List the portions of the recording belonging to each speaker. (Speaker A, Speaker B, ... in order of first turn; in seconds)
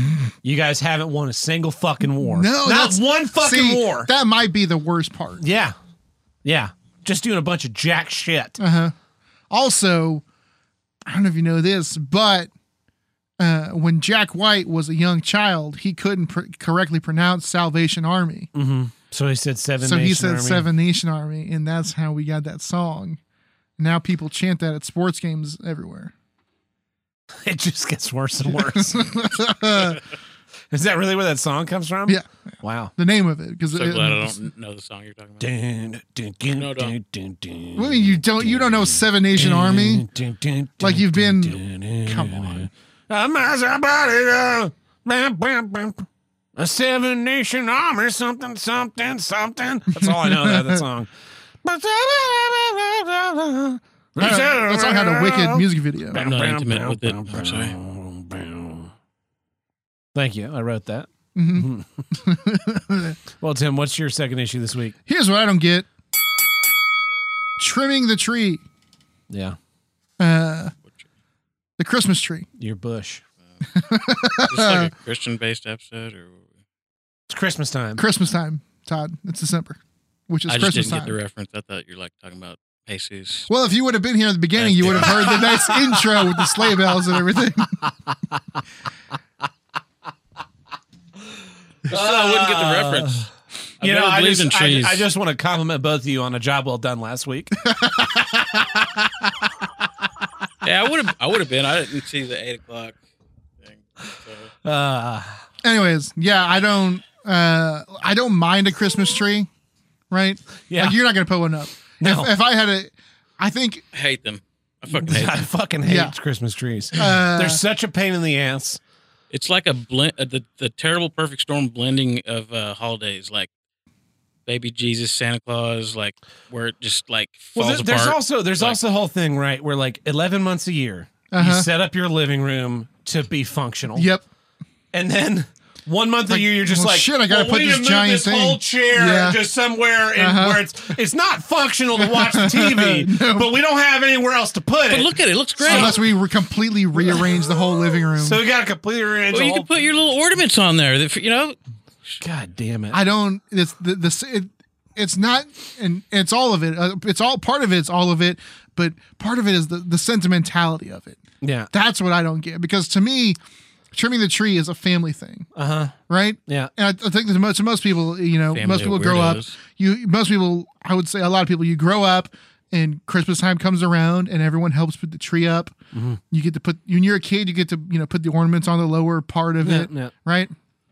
Speaker A: 0.4-4.1, 5.4-5.7, 6.4-8.6, 18.5-20.7, 27.4-29.1, 30.7-32.9, 35.4-51.1, 51.6-58.9, 60.1-62.0, 63.4-65.0, 69.3-69.6, 72.6-73.2, 77.3-78.0, 84.9-85.7, 91.9-93.2, 93.8-97.6, 104.6-105.4, 110.7-111.0, 112.0-112.3, 114.9-118.8, 127.5-134.1, 134.9-145.9, 148.2-149.7, 152.2-153.0, 161.4-161.7, 165.6-165.9, 175.9-176.2, 179.6-180.1
Speaker B: 2.2-5.4, 8.6-8.9, 9.5-10.2, 11.1-12.5, 13.4-18.5, 19.8-23.2, 23.8-26.1, 28.5-30.0, 33.0-34.4, 37.8-40.1, 40.8-42.7, 50.0-50.8, 54.2-56.2, 61.4-63.2, 65.1-65.9, 67.6-68.6, 70.2-70.7, 71.8-72.5, 73.7-74.9, 78.0-81.2, 83.5-87.8, 97.6-98.6, 105.6-109.5, 110.1-113.8, 115.8-116.1, 116.9-117.6, 131.3-131.7, 133.9-134.2, 136.3-139.4, 140.2-140.7, 142.0-143.5, 145.6-148.4, 152.9-163.4, 163.9-165.5, 166.1-175.7, 176.3-180.5
Speaker C: 33.7-35.5, 36.5-36.9, 56.1-57.7, 74.5-76.4, 80.5-83.5, 84.6-85.4, 91.9-93.3, 93.8-95.1, 100.6-103.0, 103.6-104.5, 113.9-115.4, 119.3-123.5, 124.5-128.8, 144.9-146.1, 149.3-151.6, 168.5-169.5